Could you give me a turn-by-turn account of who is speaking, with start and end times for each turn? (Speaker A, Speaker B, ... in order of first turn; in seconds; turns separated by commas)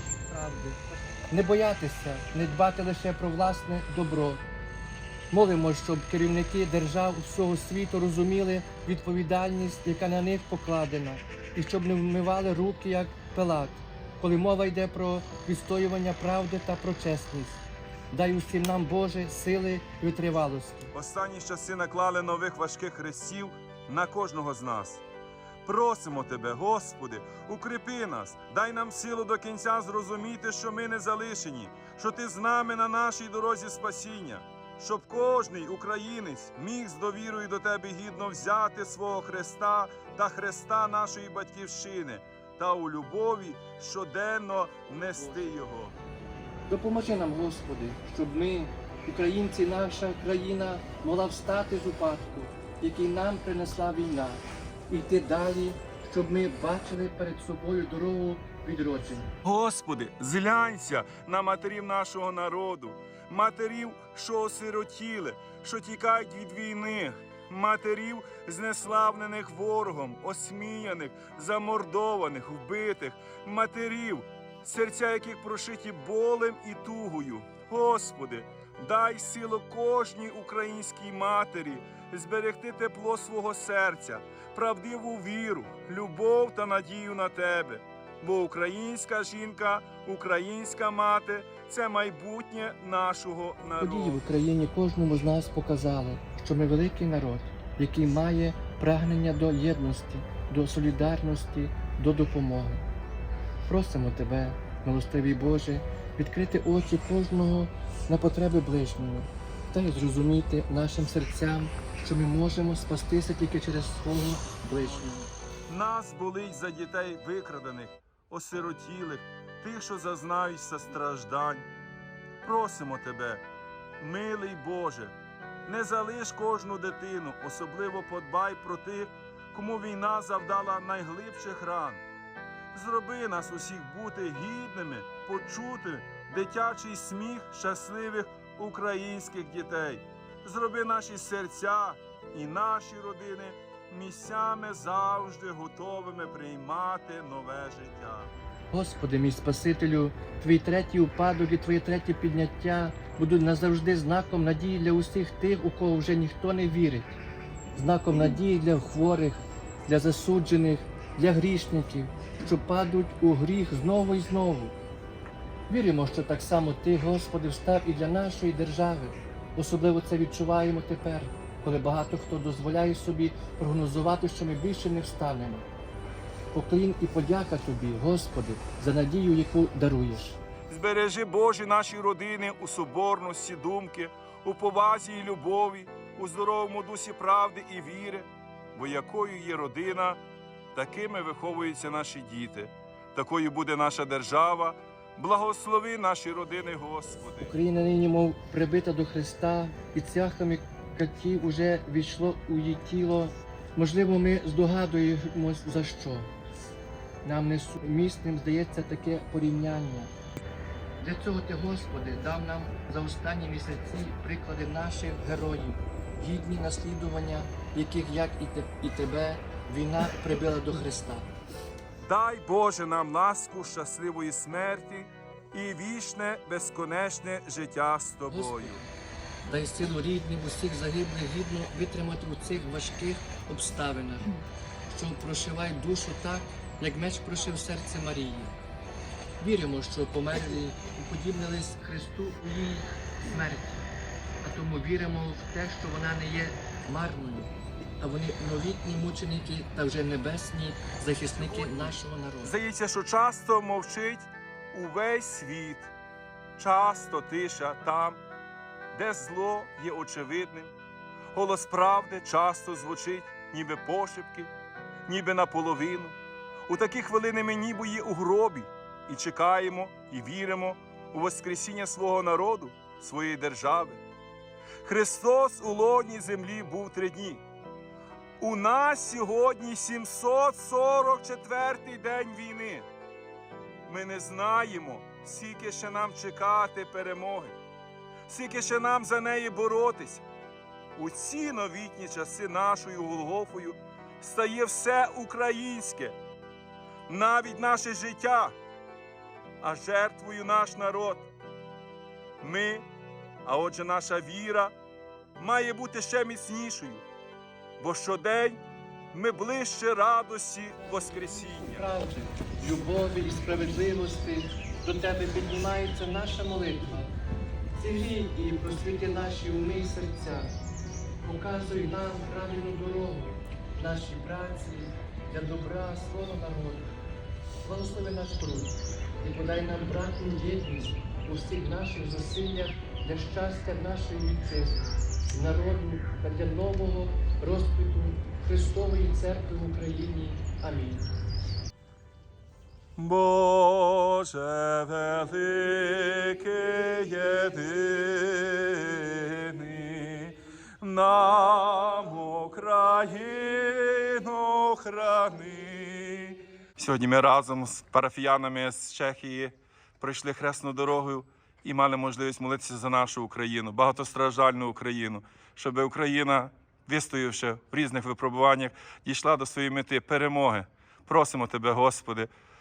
Speaker A: 0.3-4.4, Speaker A: 5.3-20.9, Speaker B: 20.9-25.0, Speaker B: 25.6-46.0, Speaker A: 45.0-45.6, Speaker A: 46.7-59.3, Speaker B: 59.4-94.2, Speaker A: 93.8-102.8, Speaker A: 103.7-115.3, Speaker B: 115.7-121.7, Speaker B: 122.4-123.4, Speaker B: 124.0-132.0, Speaker B: 132.7-148.3, Speaker A: 148.7-157.2, Speaker A: 157.7-164.7, Speaker A: 165.7-175.7, Speaker A: 176.5-180.4, Speaker B: 180.7-190.2, Speaker B: 190.7-197.5, Speaker A: 197.4-206.3, Speaker A: 207.2-210.1, Speaker A: 211.0-221.3, Speaker B: 222.0-228.8, Speaker A: 228.3-228.9, Speaker A: 229.4-238.5, Speaker A: 239.4-243.8, Speaker A: 244.4-252.5, Speaker B: 251.3-255.9, Speaker B: 256.6-258.2, Speaker B: 258.9-260.7, Speaker B: 261.3-264.5, Speaker B: 265.1-274.0, Speaker B: 274.8-277.4, Speaker B: 278.4-282.9, Speaker B: 283.8-287.6, Speaker B: 288.3-290.2, Speaker B: 290.9-296.1, Speaker B: 297.1-298.6, Speaker B: 299.6-301.3, Speaker B: 302.4-302.9, Speaker B: 303.4-304.7, Speaker B: 305.4-307.0, Speaker B: 307.8-308.6, Speaker B: 309.1-311.9, Speaker A: 310.9-317.1, Speaker A: 317.8-320.5, Speaker A: 321.2-326.9, Speaker A: 327.6-341.1, Speaker B: 343.0-372.3